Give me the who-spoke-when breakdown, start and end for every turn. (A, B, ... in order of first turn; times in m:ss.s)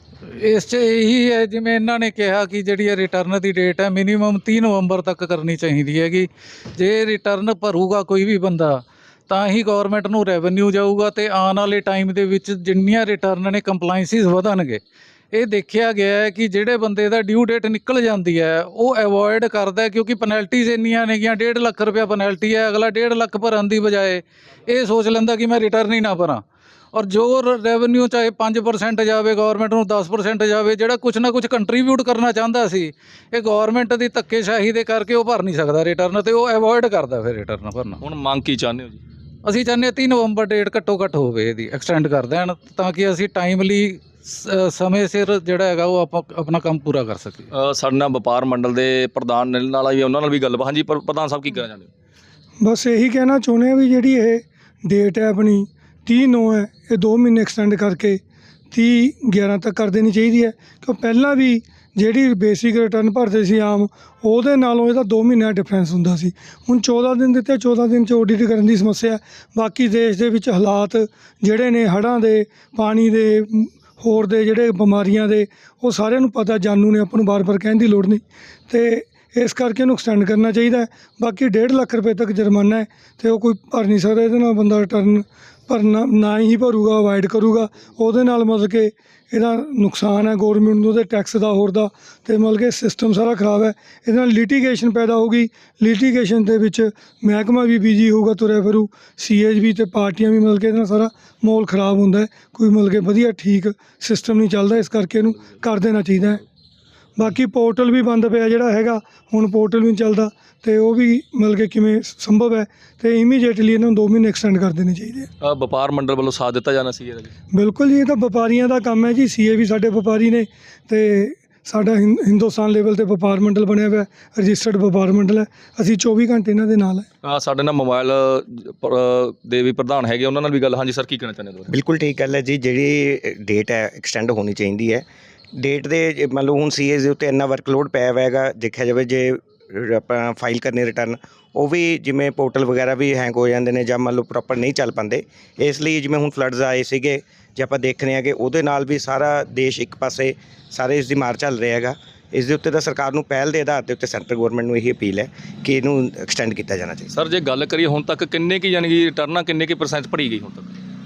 0:00.3-0:38.0 A
0:38.0-0:39.0 B
0:39.4-0:47.5 A
0:47.5-0:51.9 B
0:52.6-1:46.4 C
1:47.2-1:55.3 C
1:55.4-1:57.3 B
1:57.5-2:07.0 C
2:07.2-2:11.7 B
2:11.7-2:15.0 D
2:15.6-2:37.1 D
2:37.1-2:40.7 B